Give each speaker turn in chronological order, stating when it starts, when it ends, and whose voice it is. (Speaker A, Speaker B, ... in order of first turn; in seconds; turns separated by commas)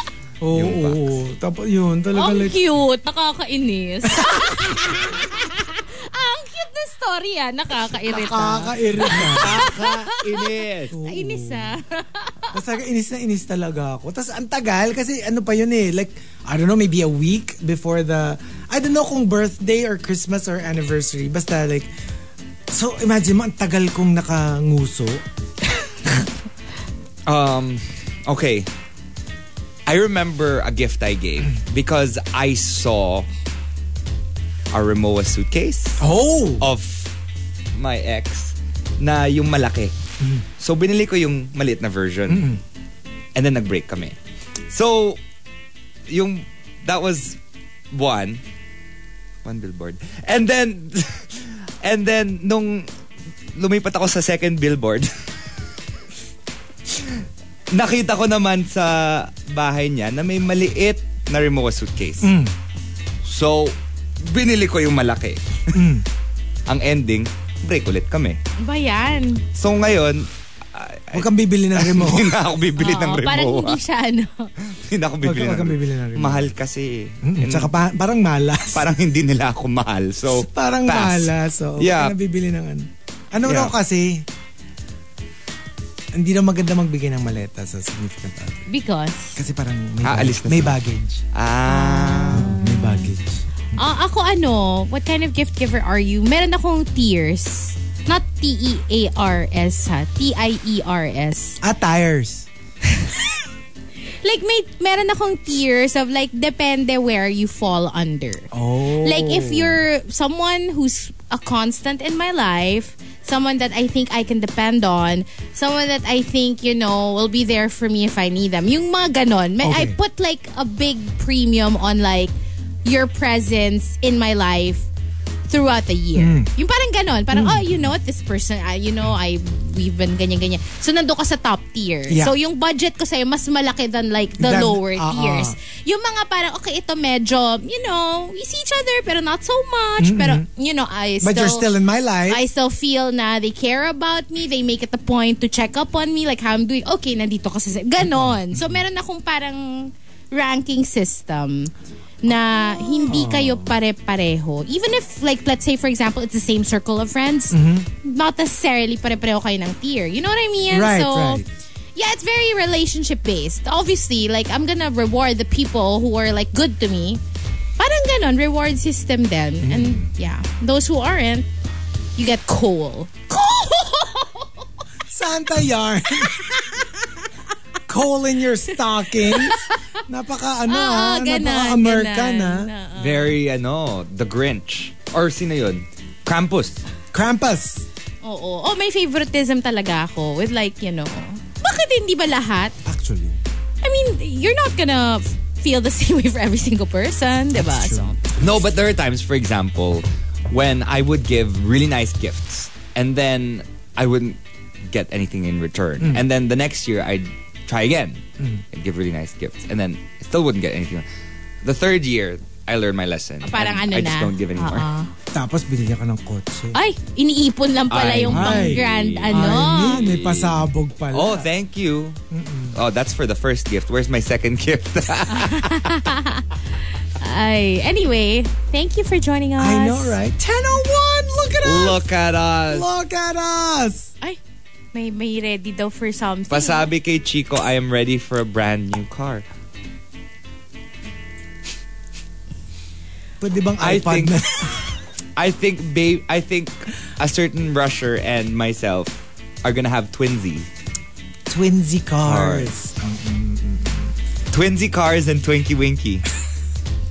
Speaker A: 0.4-2.6, Speaker B: 0.5-1.1, Speaker C: 2.1-12.6, Speaker A: 8.1-9.7, Speaker B: 9.0-11.0, Speaker A: 10.9-11.8, Speaker A: 12.5-21.9, Speaker A: 22.7-25.2, Speaker B: 27.2-28.7, Speaker B: 29.9-33.3, Speaker B: 34.7-36.1, Speaker A: 36.0-36.7, Speaker B: 36.6-37.1, Speaker B: 37.7-40.0, Speaker A: 40.2-40.4, Speaker B: 40.6-42.5, Speaker A: 42.3-42.6, Speaker B: 43.3-44.2, Speaker B: 44.7-45.2, Speaker B: 46.1-47.4, Speaker B: 47.9-48.4, Speaker B: 49.4-52.9, Speaker B: 53.5-55.6, Speaker B: 56.9-62.4, Speaker A: 62.2-62.5, Speaker B: 63.2-65.9, Speaker A: 65.7-66.0, Speaker B: 66.7-68.4, Speaker C: 68.6-69.5, Speaker B: 69.5-73.8, Speaker A: 71.1-72.3, Speaker C: 72.8-74.5, Speaker B: 74.6-77.7, Speaker A: 75.2-76.5, Speaker A: 77.2-78.9, Speaker B: 78.7-82.1, Speaker A: 80.3-84.2, Speaker B: 83.4-83.8, Speaker A: 86.1-88.6, Speaker C: 88.7-89.3, Speaker A: 89.3-91.2, Speaker B: 90.0-90.8, Speaker B: 91.3-92.6, Speaker C: 91.7-93.1, Speaker A: 92.3-93.8, Speaker C: 93.8-101.6, Speaker A: 101.6-102.5, Speaker C: 102.8-103.3, Speaker C: 104.2-124.9, Speaker A: 108.5-109.8, Speaker A: 119.6-120.0, Speaker C: 125.5-141.7, Speaker A: 126.1-126.5, Speaker A: 127.3-127.9, Speaker A: 132.1-132.3, Speaker A: 134.4-135.6, Speaker A: 140.0-140.4, Speaker A: 141.2-142.4, Speaker C: 142.3-151.7, Speaker A: 148.0-148.8, Speaker C: 152.2-161.4, Speaker A: 152.7-153.7, Speaker A: 157.5-157.9, Speaker A: 160.7-161.4, Speaker C: 161.9-167.2, Speaker C: 167.8-171.5, Speaker A: 169.6-170.1, Speaker C: 172.2-174.6, Speaker A: 175.1-176.7, Speaker C: 176.3-176.6, Speaker A: 177.9-182.7, Speaker C: 179.2-179.8, Speaker C: 180.7-183.3, Speaker B: 183.0-186.8, Speaker A: 187.1-187.8, Speaker C: 188.2-192.8, Speaker A: 192.8-193.4, Speaker C: 193.8-198.2, Speaker A: 197.5-198.1, Speaker B: 198.4-211.1, Speaker A: 206.0-206.2, Speaker B: 211.6-214.9, Speaker C: 213.4-215.1, Speaker A: 215.3-216.8, Speaker C: 216.7-220.1, Speaker B: 217.9-222.2, Speaker A: 218.3-221.5, Speaker A: 222.3-222.8, Speaker B: 222.7-226.1, Speaker C: 225.3-226.4, Speaker C: 227.2-230.2, Speaker A: 229.6-232.1, Speaker B: 231.6-232.9, Speaker A: 232.6-234.1, Speaker C: 234.9-236.9, Speaker B: 236.5-239.4, Speaker A: 243.4-244.9, Speaker B: 243.8-250.7, Speaker A: 251.5-254.1, Speaker B: 252.2-252.7, Speaker B: 254.5-256.2